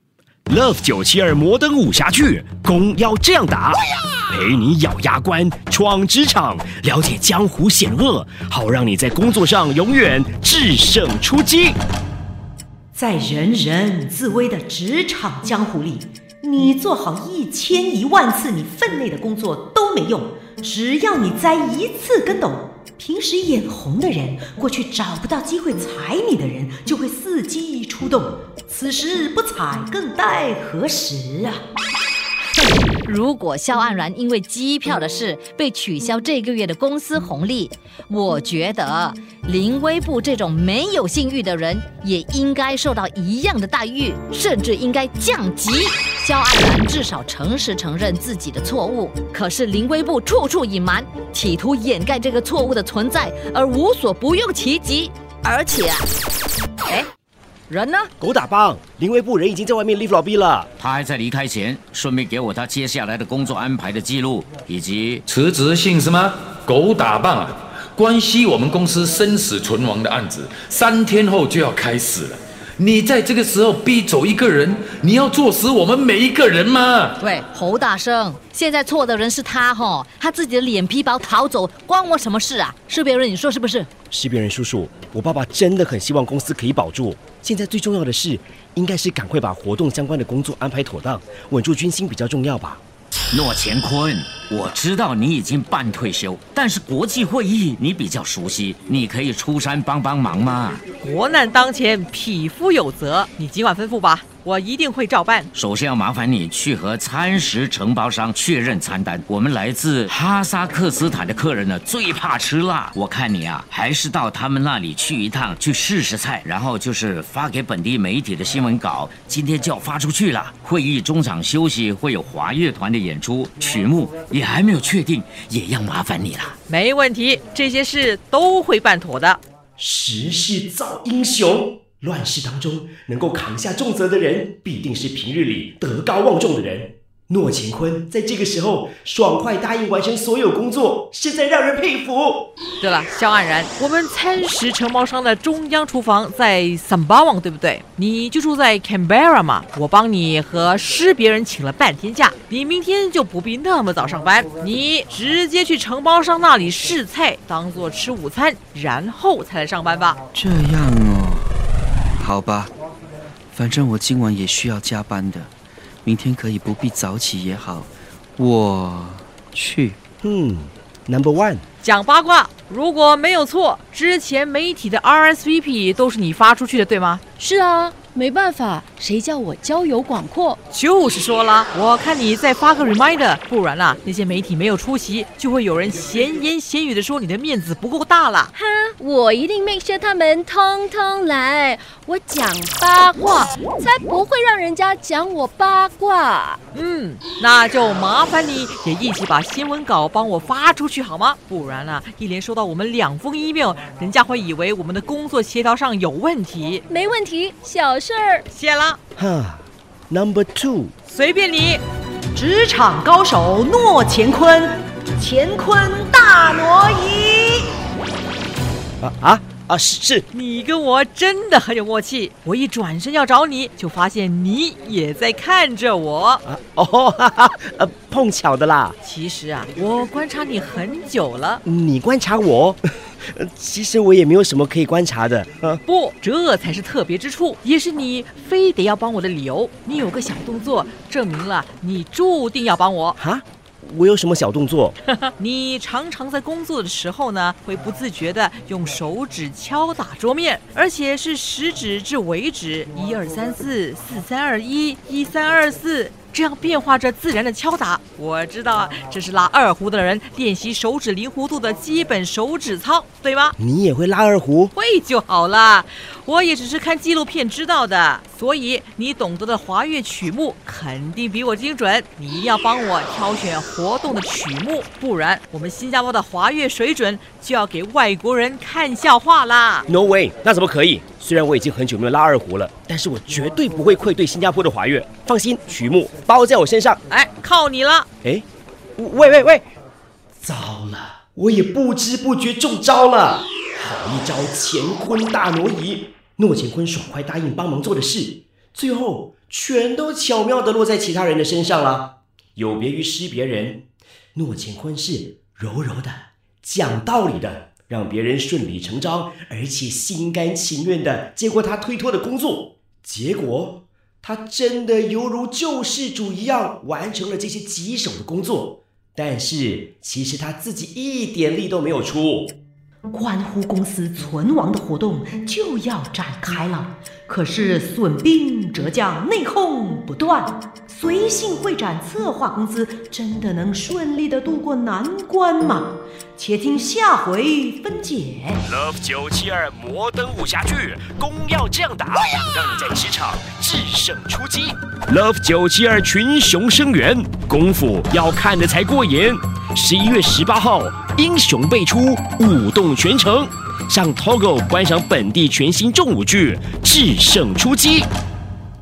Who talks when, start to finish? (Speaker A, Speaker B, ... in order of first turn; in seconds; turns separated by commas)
Speaker A: 0.5-11.8, Speaker B: 12.9-31.6, Speaker C: 32.6-56.0, Speaker C: 57.7-58.1, Speaker A: 58.2-60.7, Speaker D: 60.8-65.2, Speaker E: 65.2-77.2, Speaker C: 77.2-83.9, Speaker A: 84.1-92.8, Speaker D: 93.3-100.8, Speaker F: 101.0-105.5, Speaker D: 105.5-126.5, Speaker F: 126.7-129.4, Speaker A: 129.8-142.5, Speaker F: 142.8-160.2, Speaker G: 160.3-161.4, Speaker G: 163.5-165.5, Speaker G: 166.1-167.9, Speaker G: 168.4-169.9, Speaker A: 170.2-171.6, Speaker F: 171.8-177.2, Speaker H: 177.4-180.6, Speaker F: 180.7-188.5, Speaker H: 188.5-196.6, Speaker F: 196.7-206.8, Speaker H: 206.9-208.4, Speaker F: 208.5-209.0, Speaker A: 209.2-210.9, Speaker F: 211.1-211.8, Speaker B: 212.3-217.7, Speaker A: 219.0-220.2, Speaker F: 220.3-226.4, Speaker A: 226.4-228.9, Speaker F: 229.0-231.6, Speaker A: 231.6-235.8, Speaker F: 235.8-243.2, Speaker A: 243.2-244.9, Speaker F: 245.2-263.5, Speaker A: 263.6-264.7, Speaker F: 264.7-279.9, Speaker A: 279.9-287.0, Speaker F: 287.1-288.1, Speaker A: 289.0-289.6, Speaker A: 290.4-303.8, Speaker A: 304.4-322.6, Speaker B: 323.1-338.6, Speaker A: 338.6-358.1